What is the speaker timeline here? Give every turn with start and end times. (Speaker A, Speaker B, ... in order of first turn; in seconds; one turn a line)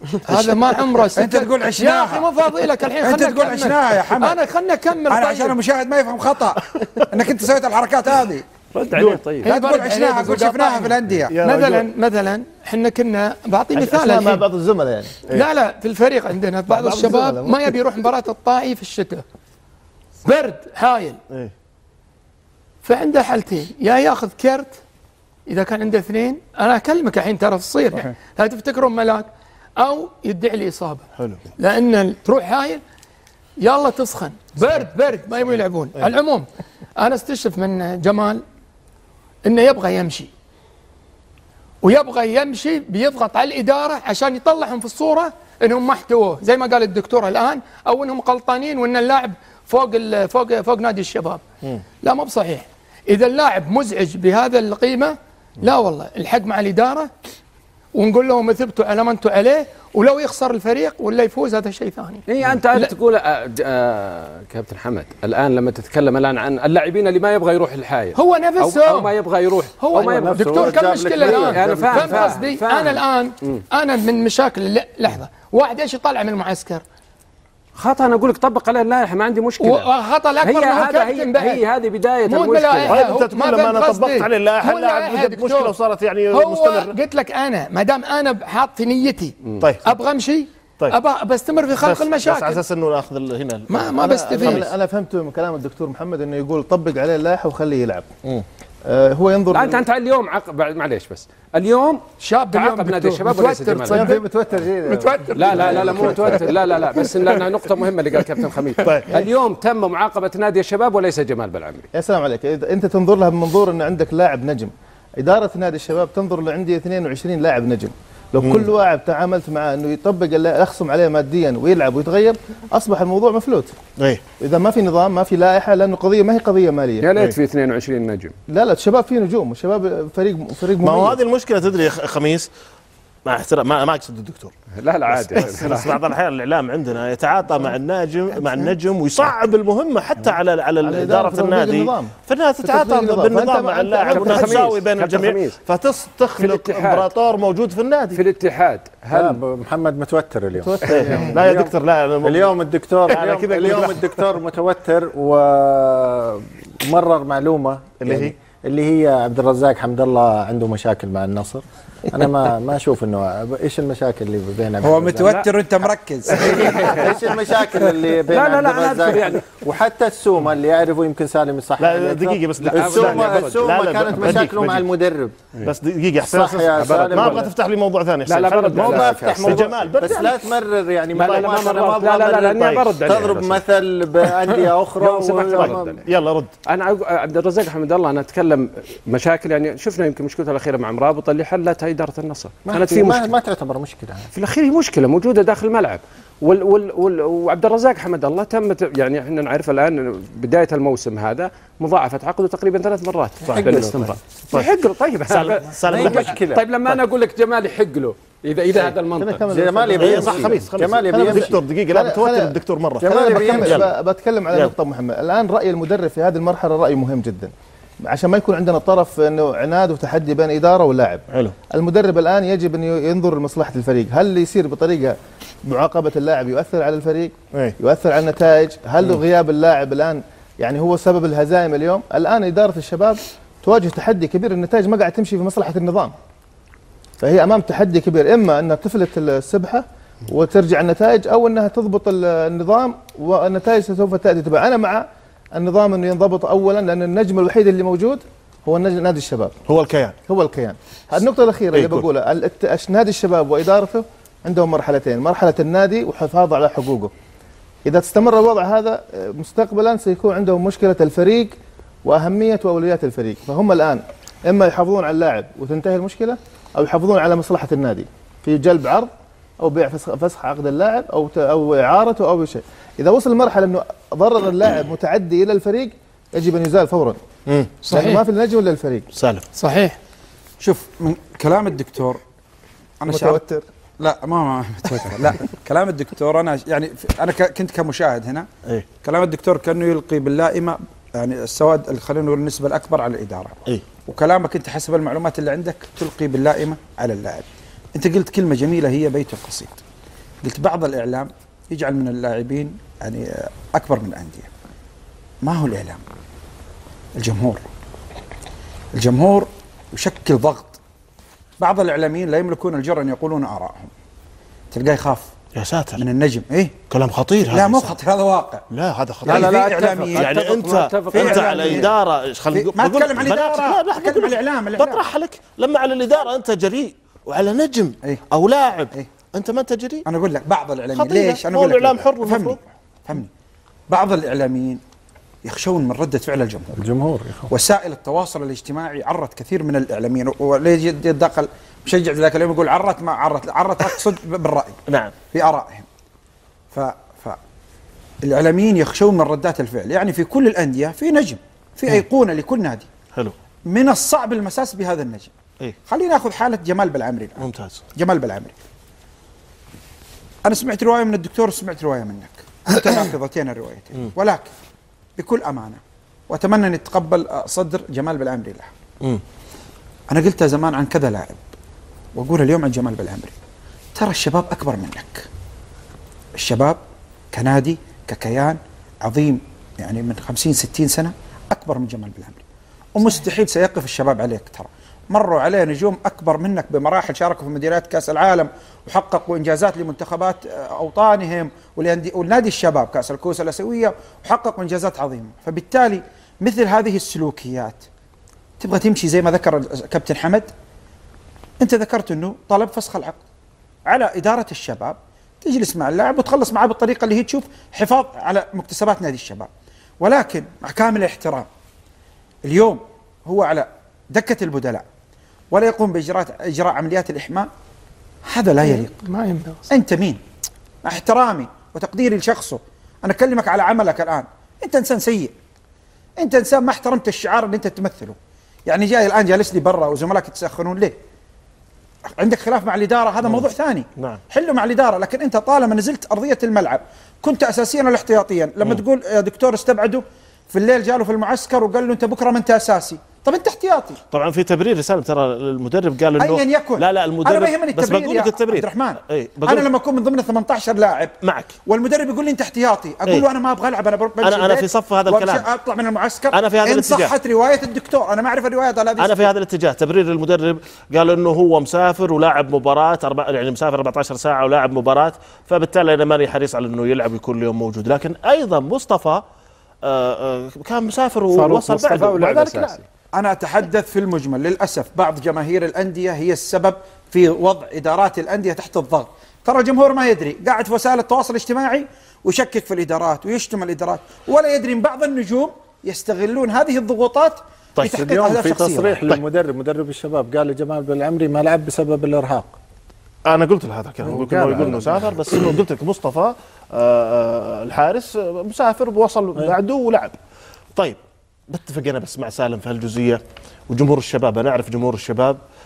Speaker A: 0.3-5.6
Speaker B: 1.1-4.4
Speaker B: 5.1-8.4
Speaker C: 8.7-9.5
Speaker D: 9.0-9.2
Speaker A: 9.4-14.4
Speaker B: 9.4-11.3
Speaker D: 11.3-11.9
Speaker E: 13.8-15.2
Speaker A: 15.3-19.2
Speaker E: 16.7-17.8
Speaker A: 20.2-21.2
Speaker A: 22.8-24.8
Speaker A: 25.5-29.3
Speaker A: 29.8-31.1
Speaker A: 31.6-32.8
Speaker A: 33.6-36.5
Speaker A: 37.0-38.4
Speaker A: 39.5-40.3
Speaker A: 41.8-51.4
Speaker A: 52.0-57.1
Speaker A: 58.0-62.9
Speaker C: 62.3-73.6
Speaker A: 68.2-69.1
Speaker A: 69.8-76.8
Speaker F: 70.0-72.3
Speaker C: 77.8-79.9
Speaker A: 79.6-81.6
Speaker C: 80.4-83.0
Speaker A: 82.3-85.8
Speaker D: 82.9-87.0
Speaker A: 86.3-89.3
Speaker D: 89.6-89.9
Speaker A: 89.8-92.6
Speaker D: 91.8-94.7
Speaker A: 93.7-94.7
Speaker E: 94.0-98.1
Speaker E: 98.9-99.8
Speaker C: 99.5-104.1
Speaker A: 102.2-104.2
Speaker E: 103.9-106.3
Speaker A: 104.9-106.5
Speaker C: 105.3-111.9
Speaker D: 108.8-109.2
Speaker E: 112.0-123.7
Speaker D: 118.4-118.7
Speaker E: 124.4-127.1
Speaker C: 127.0-128.3
Speaker E: 128.5-131.2
Speaker D: 130.8-132.5
Speaker D: 133.3-134.5
Speaker C: 134.8-136.0
Speaker D: 135.1-148.2
Speaker E: 140.8-144.7
Speaker C: 144.1-145.6
Speaker C: 146.4-147.1
Speaker C: 148.2-149.4
Speaker F: 149.1-165.4
Speaker E: 150.6-151.3
Speaker D: 150.9-152.5
Speaker D: 153.1-154.2
Speaker D: 158.0-158.3
Speaker B: 164.8-167.0
Speaker F: 166.3-175.5
Speaker C: 166.4-167.2
Speaker C: 168.3-169.4
Speaker D: 171.8-174.9
Speaker C: 172.6-173.6
Speaker D: 175.6-180.5
Speaker F: 176.2-177.5
Speaker C: 176.8-177.4
Speaker C: 178.3-179.6
Speaker F: 178.7-186.0
Speaker C: 181.2-183.6
Speaker D: 181.2-182.9
Speaker C: 185.0-186.0
Speaker D: 185.3-186.5
Speaker C: 186.7-193.3
Speaker F: 192.7-194.3
Speaker C: 194.3-209.4
Speaker D: 203.5-203.9
Speaker F: 203.6-204.1
Speaker D: 205.3-206.4
Speaker F: 205.8-206.7
Speaker E: 209.2-210.3
Speaker F: 209.4-211.6
Speaker D: 210.0-213.9
Speaker C: 210.1-210.5
Speaker E: 211.1-217.5
Speaker F: 213.0-213.9
Speaker E: 218.0-225.2
Speaker E: 225.7-236.1
Speaker E: 237.2-249.6
Speaker D: 249.7-250.2
Speaker E: 250.3-257.1
Speaker D: 251.7-252.1
Speaker E: 257.9-261.5
Speaker E: 262.1-269.1
Speaker E: 269.6-277.2
Speaker D: 277.5-277.8
Speaker A: 277.9-278.2
Speaker E: 277.9-279.1
Speaker D: 279.1-279.5
Speaker A: 279.6-280.0
Speaker B: 280.6-282.2
Speaker B: 283.0-283.4
Speaker E: 283.1-283.6
Speaker B: 284.0-288.5
Speaker B: 289.0-299.8
Speaker B: 300.4-304.5
Speaker B: 305.4-306.0
Speaker B: 307.2-307.6
Speaker B: 309.0-310.8
Speaker B: 311.6-313.9
Speaker B: 314.7-315.3
Speaker D: 315.6-316.0
Speaker B: 316.0-316.7
Speaker D: 316.9-318.0
Speaker B: 317.5-318.6
Speaker D: 318.7-330.1
Speaker B: 319.2-320.6
Speaker C: 319.3-321.9
Speaker B: 321.1-321.9
Speaker B: 322.5-325.1
Speaker B: 330.1-333.3
Speaker D: 331.0-332.6
Speaker B: 333.9-334.8
Speaker B: 335.4-336.7
Speaker F: 336.8-337.5
Speaker B: 337.5-344.8
Speaker B: 345.3-345.9
Speaker B: 346.7-347.4
Speaker B: 348.2-352.9
Speaker B: 353.7-355.3
Speaker B: 355.9-357.4
Speaker D: 357.4-357.8
Speaker B: 358.0-358.5
Speaker B: 360.4-364.5
Speaker B: 365.2-368.7
Speaker B: 370.1-371.4
Speaker B: 372.1-373.3
Speaker B: 374.0-375.2
Speaker B: 376.4-376.8
Speaker B: 377.3-382.4
Speaker B: 382.9-397.9
Speaker B: 398.6-400.5
Speaker B: 401.6-403.2
Speaker B: 403.9-409.5
Speaker B: 410.0-411.5
Speaker B: 412.5-414.9
Speaker B: 415.5-417.5
Speaker B: 418.3-418.9
Speaker A: 418.6-419.6
Speaker B: 419.7-420.2
Speaker B: 420.9-425.3
Speaker B: 426.2-431.0
Speaker B: 432.2-444.0
Speaker D: 444.1-449.7
Speaker B: 446.2-451.1
Speaker D: 451.2-451.5
Speaker B: 451.7-459.3
Speaker D: 454.2-455.4
Speaker D: 456.3-457.1
Speaker D: 459.0-469.2
Speaker D: 469.9-472.8
Speaker B: 471.4-472.1
Speaker C: 471.7-472.9
Speaker B: 473.1-489.0
Speaker F: 487.8-492.6
Speaker D: 493.3-500.1
Speaker C: 494.1-495.1
Speaker F: 494.1-494.8
Speaker D: 501.5-505.4